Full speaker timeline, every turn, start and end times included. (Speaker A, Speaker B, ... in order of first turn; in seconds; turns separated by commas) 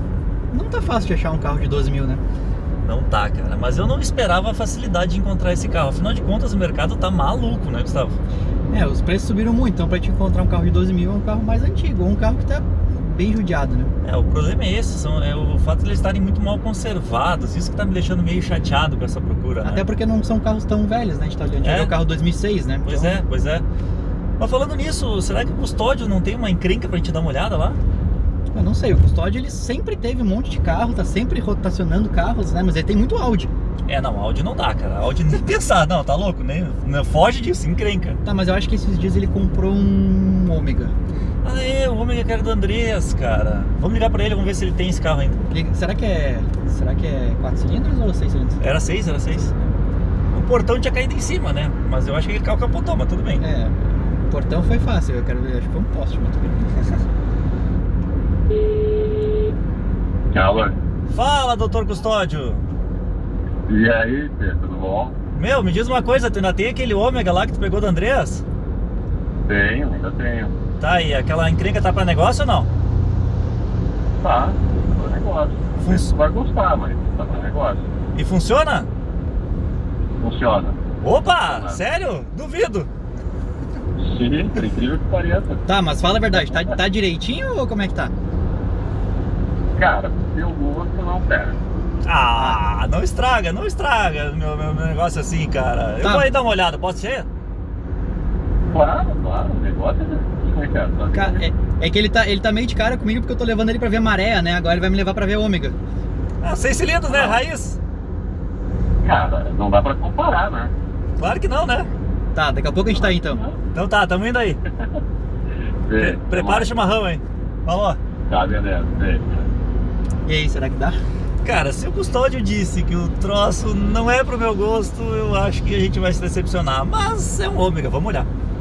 Speaker A: 0.5-2.2, Speaker B: 2.9-8.2, Speaker A: 8.7-13.9, Speaker B: 14.0-19.9, Speaker A: 19.6-23.2, Speaker B: 21.6-21.9, Speaker B: 22.9-23.7, Speaker B: 24.4-27.8, Speaker A: 28.5-33.5, Speaker B: 33.9-38.2, Speaker A: 38.2-40.9, Speaker B: 41.4-45.5, Speaker A: 45.5-48.8, Speaker B: 48.6-49.5, Speaker B: 50.3-53.4, Speaker A: 53.4-57.0, Speaker C: 60.3-60.8, Speaker B: 61.1-62.7, Speaker C: 63.7-65.2, Speaker B: 65.3-68.4, Speaker C: 69.5-70.5, Speaker B: 70.8-72.7, Speaker C: 74.2-77.9, Speaker B: 75.8-76.1, Speaker B: 78.2-78.9, Speaker C: 80.2-80.8, Speaker B: 81.0-82.9, Speaker C: 81.5-81.8, Speaker C: 84.0-85.7, Speaker A: 85.7-88.1, Speaker C: 89.8-91.6, Speaker B: 92.0-97.3, Speaker A: 92.4-92.6, Speaker A: 96.0-96.3, Speaker C: 98.7-101.4, Speaker A: 101.1-105.8, Speaker B: 106.4-107.8, Speaker A: 107.1-107.4, Speaker C: 109.0-110.7, Speaker B: 111.2-111.9, Speaker A: 112.3-113.4, Speaker C: 112.9-113.6, Speaker B: 113.7-114.6, Speaker C: 115.8-116.7, Speaker B: 116.0-118.0, Speaker C: 118.3-119.5, Speaker A: 120.2-121.0, Speaker B: 121.4-128.3